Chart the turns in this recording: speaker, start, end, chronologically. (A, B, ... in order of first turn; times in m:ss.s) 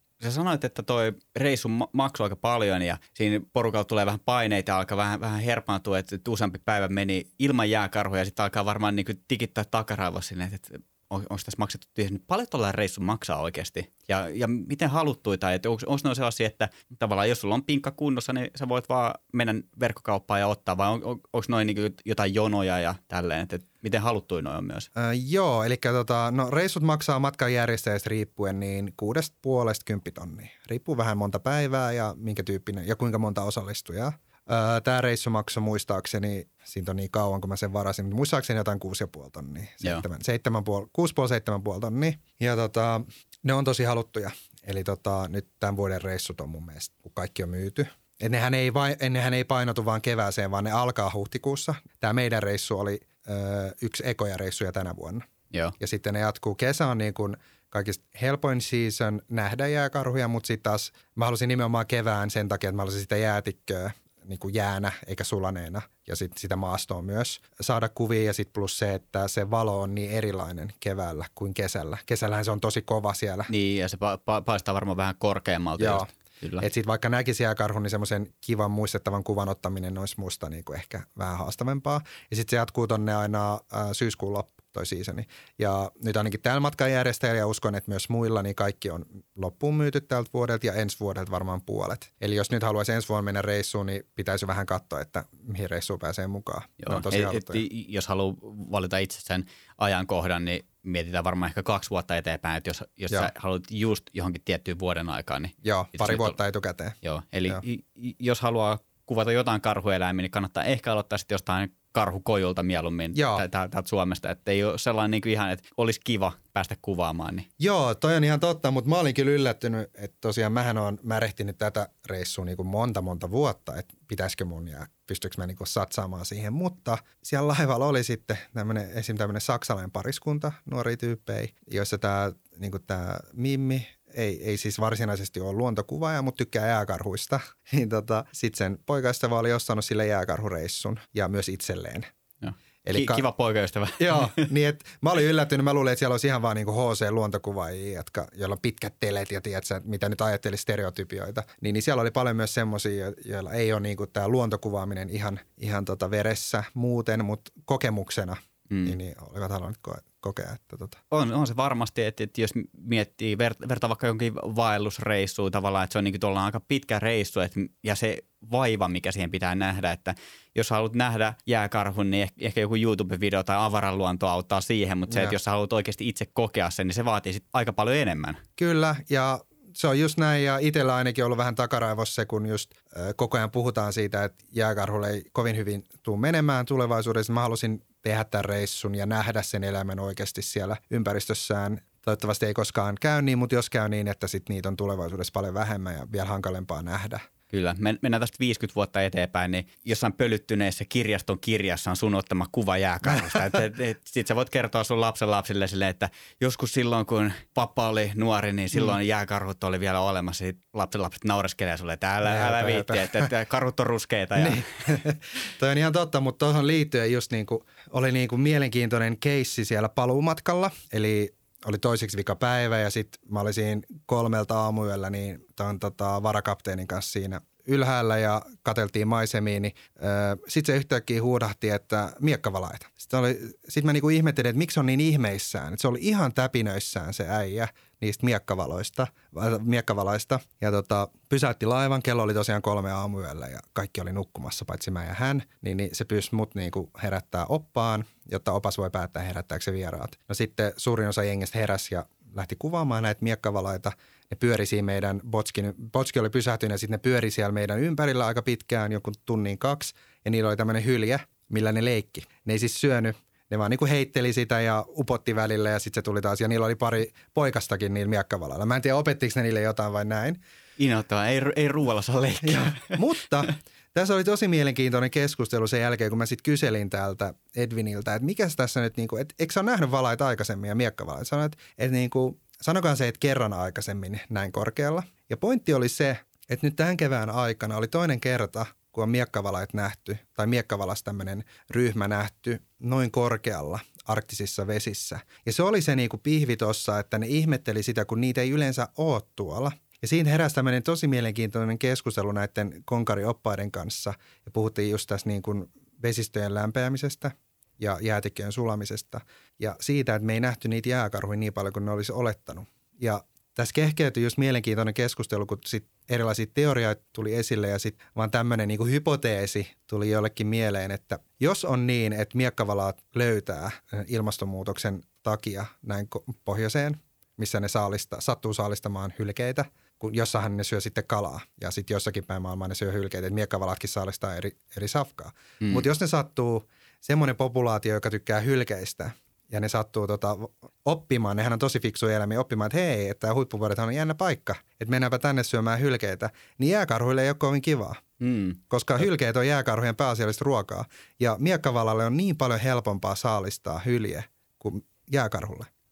0:00.2-0:24.9 A
0:25.0-0:55.2 B
0:55.8-1:13.5 B
1:13.5-1:16.6 A
1:15.8-1:16.1 B
1:16.6-1:37.6 B
1:36.8-1:46.4 A
1:45.6-1:46.9 B
1:47.0-1:57.5 A
1:53.1-1:53.4 B
1:57.6-2:22.1 B
2:22.4-2:24.5 A
2:22.8-2:23.2 B
2:24.0-2:41.0 B
2:38.7-2:39.0 A
2:41.1-2:58.4 A
2:55.1-2:55.3 B
2:58.6-3:17.2 B
3:17.5-3:35.0 A
3:32.2-3:33.3 B
3:34.4-4:30.4 B
4:30.8-4:33.0 A
4:32.4-5:48.0 B
5:35.6-5:35.9 A
5:48.2-5:48.6 A
5:48.7-5:55.7 B